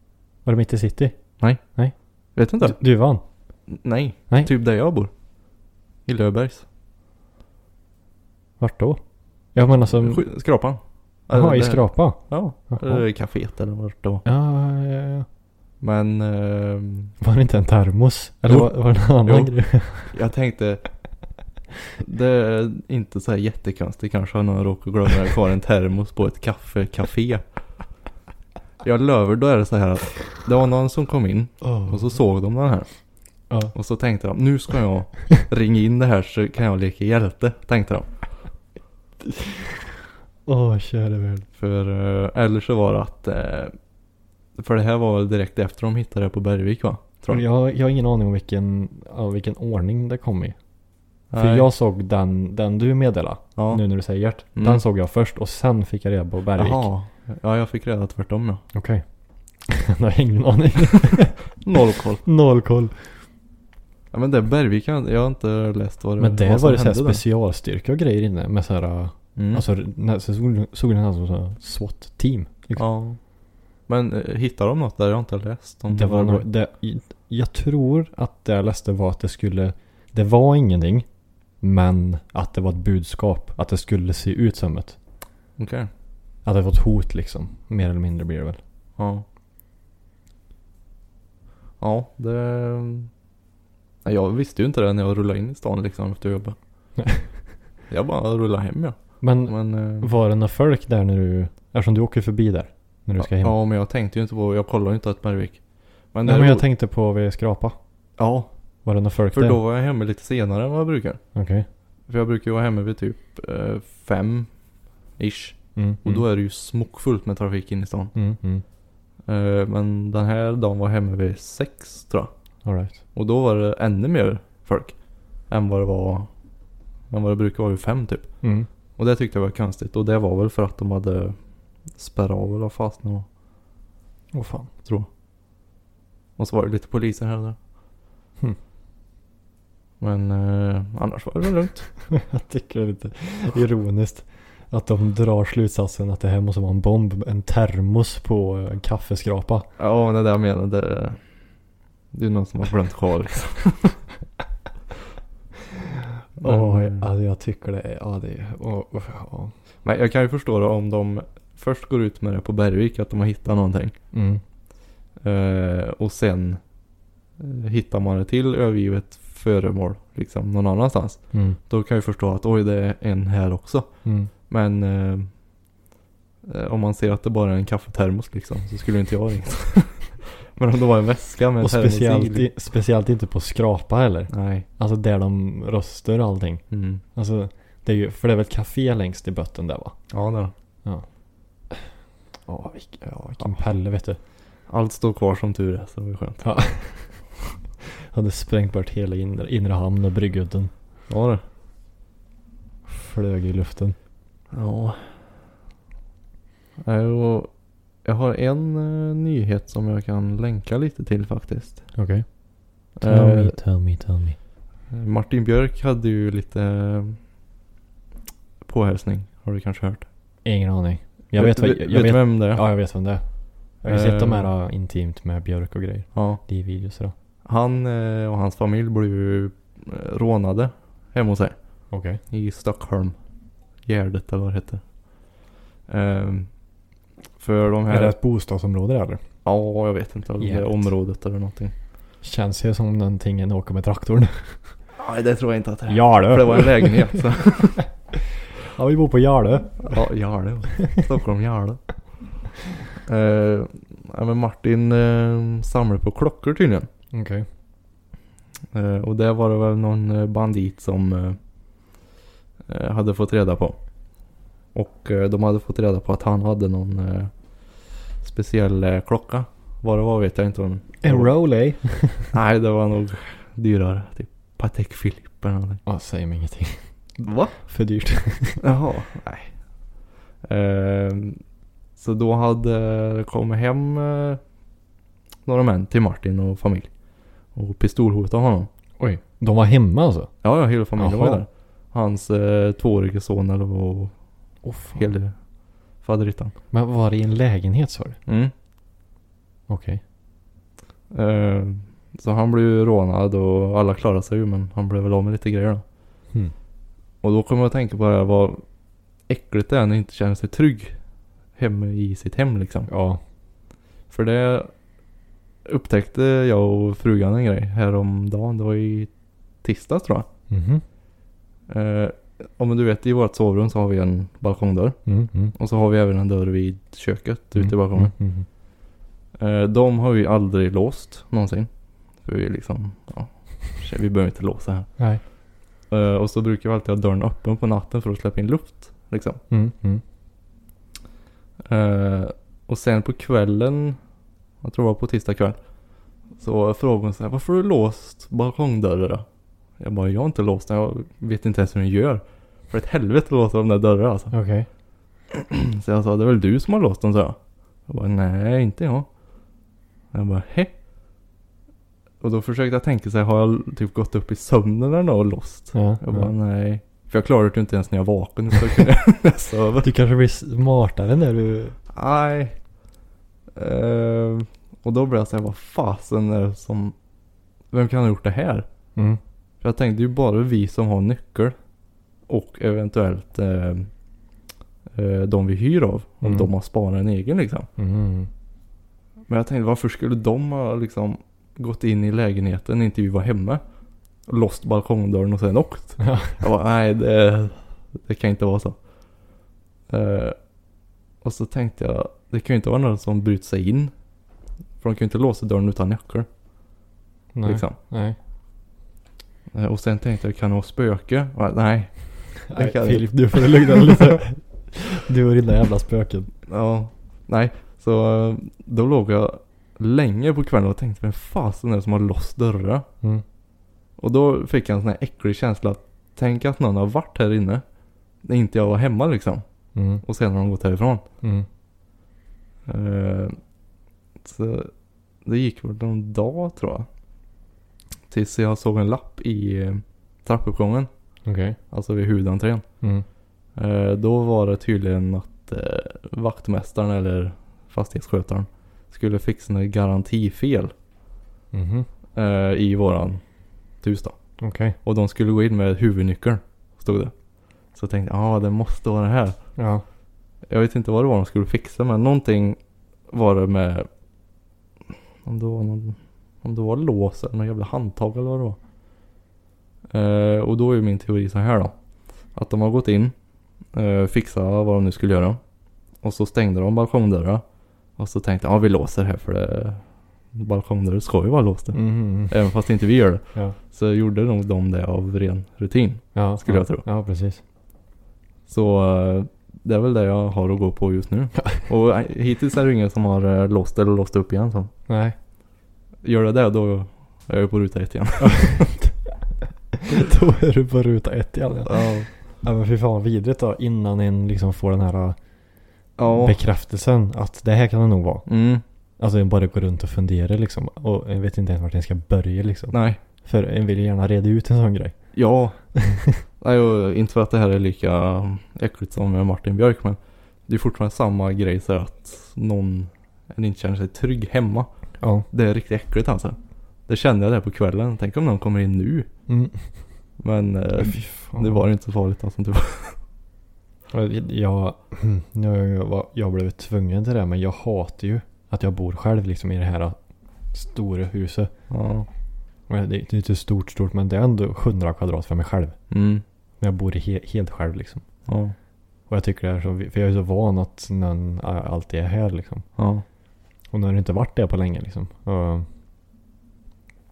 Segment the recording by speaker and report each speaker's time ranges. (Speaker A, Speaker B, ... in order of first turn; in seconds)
Speaker A: 0.4-1.9, 2.6-3.2, 8.6-9.0, 9.5-10.2, 11.3-13.0, 14.2-15.2, 17.2-20.1, 31.6-32.2, 39.3-39.7, 40.5-41.5, 47.3-50.5, 51.3-56.9, 58.7-59.0, 59.6-61.5, 62.2-63.1, 66.2-72.8, 75.9-81.1, 81.6-85.0, 86.4-88.6, 99.2-103.6, 106.2-107.8, 108.8-109.6, 111.3-111.7, 115.8-116.2, 118.1-118.6, 122.6-123.0, 128.4-128.7, 134.3-134.7, 142.1-149.7, 156.4-159.5, 164.1-164.4, 171.3-171.6, 174.0-174.3, 181.6-189.9, 192.5-194.2, 196.4-197.2, 198.1-200.7, 202.9-203.9, 211.9-214.4, 220.4-227.1, 231.9-232.2, 237.9-239.2, 240.4-240.9, 242.2-244.7, 245.9-247.2, 248.7-250.0, 257.1-257.4, 271.0-272.3, 275.9-276.9, 277.5-278.6, 289.0-290.3, 290.9-291.4, 294.6-295.1, 296.7-298.2, 299.7-300.0, 312.9-313.2, 320.5-320.8, 325.1-325.5, 327.5-328.5, 339.5-340.0, 354.3-354.7, 365.7-366.3, 369.8-371.8, 386.2-386.5, 387.8-388.3, 396.0-396.4, 407.3-408.1, 412.5-416.3, 429.7-430.0, 441.2-441.6, 451.5-451.9, 454.4-454.8, 459.6-459.8, 481.7-482.4, 486.1-487.4, 494.9-495.1, 498.2-499.0, 499.9-505.2, 506.1-508.3, 509.0-514.9, 515.8-516.2, 525.0-525.2, 529.3-529.7, 530.8-531.6, 533.9-540.0, 540.5-541.5, 542.7-545.8, 546.6-548.0, 549.1-552.6, 553.7-555.6
Speaker B: 2.3-2.8, 3.7-5.1, 6.0-6.6, 9.9-14.2, 15.8-17.1, 18.5-20.9, 22.0-27.4, 28.8-32.9, 33.7-38.3, 41.6-43.7, 44.5-47.4, 51.3-51.7, 53.5-53.8, 54.5-54.8, 56.5-58.6, 61.6-62.2, 64.1-67.2, 69.3-69.6, 72.8-73.2, 73.9-76.5, 85.6-85.9, 89.0-89.2, 91.8-93.1, 94.0-96.6, 97.9-100.1, 103.2-106.7, 108.2-108.5, 109.3-111.2, 112.1-114.5, 115.2-118.1, 119.2-122.3, 123.1-126.3, 127.1-128.4, 129.0-131.4, 131.9-133.2, 136.4-137.6, 140.0-141.9, 149.8-151.2, 152.1-154.0, 156.4-157.0, 159.8-163.9, 165.2-166.6, 167.4-175.3, 176.4-182.5, 184.3-184.7, 186.7-187.0, 190.1-190.5, 193.0-193.6, 194.7-196.4, 201.1-201.4, 204.5-205.1, 206.8-211.9, 212.9-213.6, 214.9-217.2, 218.6-220.1, 221.3-222.6, 223.8-224.5, 226.1-226.4, 227.4-233.2, 233.8-235.3, 235.9-236.5, 237.4-238.2, 239.4-241.7, 244.9-247.8, 249.8-251.8, 253.1-256.9, 258.7-261.4, 262.6-263.8, 264.7-271.3, 272.3-275.8, 277.2-277.6, 278.6-279.6, 280.4-281.4, 281.9-284.4, 285.4-286.9, 287.5-288.7, 290.4-294.2, 294.9-295.4, 295.9-296.5, 298.2-298.5, 301.1-305.8, 307.2-308.6, 309.3-311.0, 311.5-312.9, 314.1-314.7, 315.6-319.1, 319.6-320.3, 321.7-325.0, 325.5-328.1, 329.4-334.9, 335.9-339.4, 341.6-344.0, 344.6-345.6, 346.3-349.2, 349.8-354.3, 355.3-359.1, 360.1-360.7, 362.2-369.9, 371.9-372.6, 373.5-376.9, 377.7-378.7, 379.6-381.6, 382.3-383.9, 384.9-387.7, 389.3-393.6, 394.2-398.8, 399.9-400.4, 401.2-403.9, 404.8-406.3, 407.4-407.8, 409.5-414.1, 416.5-422.9, 424.0-427.6, 428.2-429.4, 430.0-431.0, 432.6-433.4, 434.2-434.7, 435.2-436.9, 438.1-440.9, 441.7-442.6, 443.5-450.7, 452.1-453.2, 453.8-454.2, 454.8-457.1, 457.7-459.4, 460.4-463.9, 465.2-468.6, 469.9-471.8, 472.3-473.1, 473.7-475.4, 476.0-477.4, 477.9-486.8, 488.5-494.7, 496.0-498.6, 501.6-502.1, 506.0-506.4, 508.2-508.6, 512.7-513.0, 515.1-515.6, 516.4-524.7, 525.3-529.1, 530.2-533.0, 541.7-542.1, 545.9-546.2, 548.2-548.5, 552.8-553.0